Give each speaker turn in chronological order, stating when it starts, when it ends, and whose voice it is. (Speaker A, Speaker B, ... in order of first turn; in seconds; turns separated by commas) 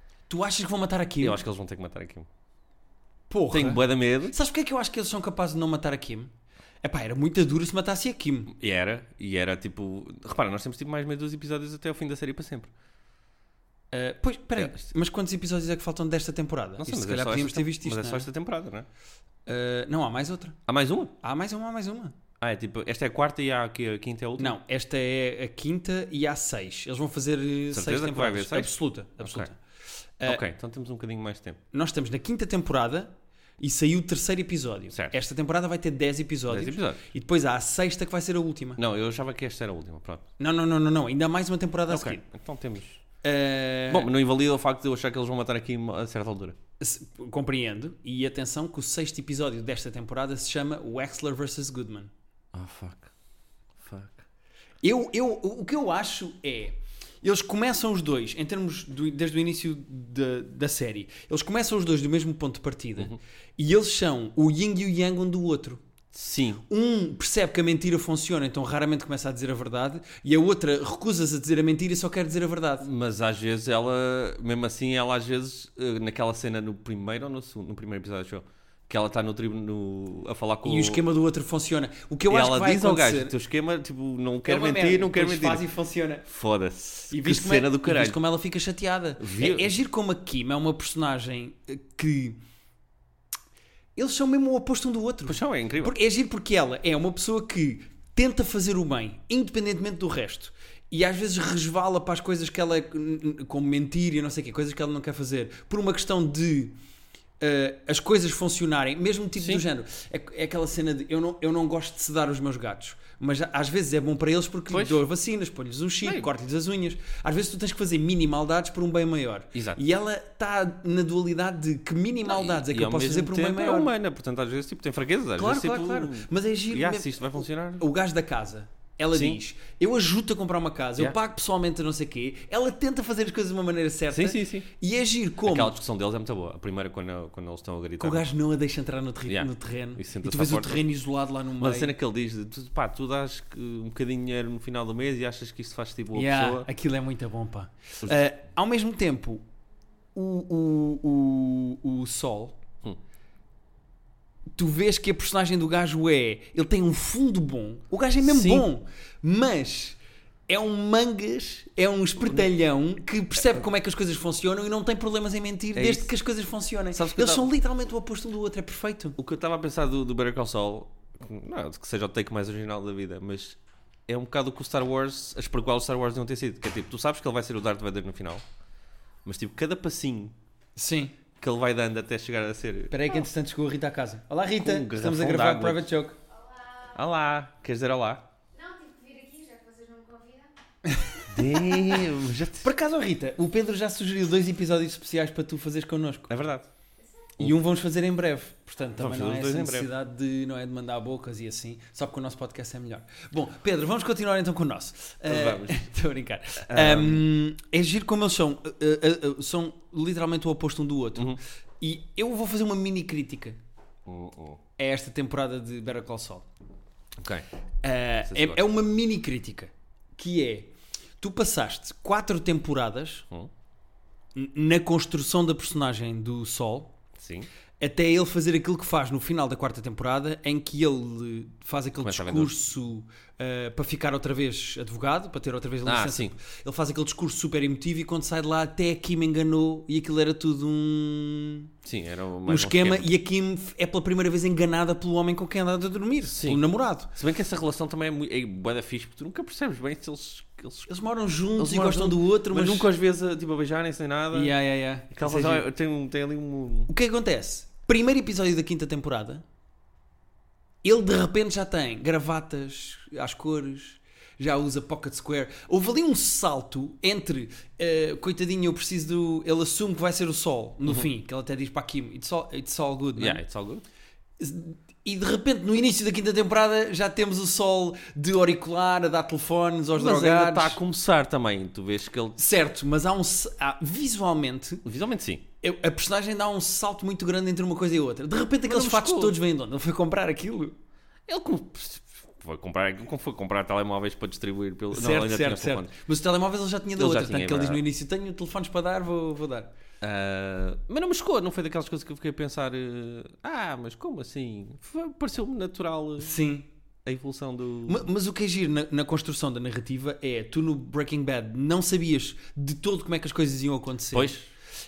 Speaker A: 0.3-1.4, Speaker B: 1.2-2.3, Speaker A: 3.3-6.3, Speaker B: 3.5-4.3, Speaker A: 6.8-8.5, Speaker B: 8.5-12.7, Speaker A: 13.9-18.3, Speaker B: 14.6-14.9, Speaker B: 16.8-18.9, Speaker A: 19.5-20.6, Speaker B: 20.7-21.1, Speaker A: 21.2-22.1, Speaker B: 22.4-24.6, Speaker A: 24.4-29.6, Speaker B: 27.7-29.5, Speaker B: 30.2-31.6, Speaker A: 31.7-38.8, Speaker B: 36.5-37.1, Speaker B: 38.8-40.3, Speaker A: 40.4-42.2, Speaker B: 41.9-43.0, Speaker A: 43.2-44.1, Speaker B: 43.9-46.6, Speaker A: 46.8-52.1, Speaker B: 52.5-53.1, Speaker B: 53.8-54.2, Speaker A: 54.8-65.8, Speaker B: 66.1-66.6, Speaker A: 66.7-72.9, Speaker B: 72.8-81.0, Speaker A: 80.6-83.4, Speaker B: 82.3-85.6, Speaker A: 84.5-86.3, Speaker B: 86.3-88.2, Speaker A: 87.1-92.4, Speaker B: 89.2-89.7, Speaker A: 94.0-106.8, Speaker B: 95.3-96.0, Speaker A: 107.4-123.9, Speaker B: 109.4-109.6, Speaker B: 114.7-115.0, Speaker B: 116.0-116.3, Speaker B: 119.5-119.8, Speaker B: 122.2-127.8, Speaker A: 125.4-135.8, Speaker B: 129.1-129.4, Speaker B: 134.1-134.7, Speaker B: 135.4-138.3, Speaker A: 138.0-141.9, Speaker B: 139.3-140.8, Speaker B: 141.6-146.7, Speaker A: 146.1-149.4, Speaker A: 150.2-152.6, Speaker A: 154.6-169.2, Speaker B: 158.2-158.7, Speaker B: 165.8-166.1, Speaker B: 166.9-167.5, Speaker B: 169.2-178.4, Speaker B: 179.2-180.3, Speaker A: 180.8-181.1, Speaker B: 181.4-183.2, Speaker A: 182.9-186.2, Speaker B: 184.6-185.9, Speaker C: 186.3-187.0, Speaker B: 186.9-188.3, Speaker C: 188.5-190.5, Speaker A: 190.9-192.1, Speaker B: 191.3-192.7, Speaker A: 192.6-196.3, Speaker B: 196.3-196.7, Speaker C: 197.0-197.3, Speaker A: 197.4-213.6, Speaker B: 199.0-199.9, Speaker B: 205.3-205.9, Speaker B: 206.7-207.3, Speaker B: 214.1-214.6, Speaker A: 214.8-216.5, Speaker B: 217.2-217.5, Speaker A: 217.8-223.3, Speaker B: 218.3-218.7, Speaker A: 224.3-226.9, Speaker B: 227.2-227.5, Speaker A: 227.8-241.7, Speaker B: 232.0-232.6, Speaker B: 235.8-236.4, Speaker B: 241.8-243.1, Speaker A: 242.5-247.1, Speaker B: 246.3-250.9, Speaker A: 250.9-252.9, Speaker B: 251.6-254.5, Speaker A: 254.3-255.7, Speaker B: 255.1-256.9, Speaker A: 256.9-259.4, Speaker A: 260.8-273.4, Speaker B: 273.2-273.9, Speaker A: 274.4-280.8, Speaker B: 280.0-282.4, Speaker A: 282.4-284.8, Speaker B: 284.9-285.4, Speaker A: 285.6-290.8, Speaker B: 288.6-289.4, Speaker B: 291.3-295.9, Speaker A: 294.9-299.7, Speaker B: 297.0-297.8, Speaker B: 300.0-306.4, Speaker A: 306.2-306.7, Speaker B: 307.1-308.1, Speaker A: 307.9-314.4, Speaker B: 314.1-314.5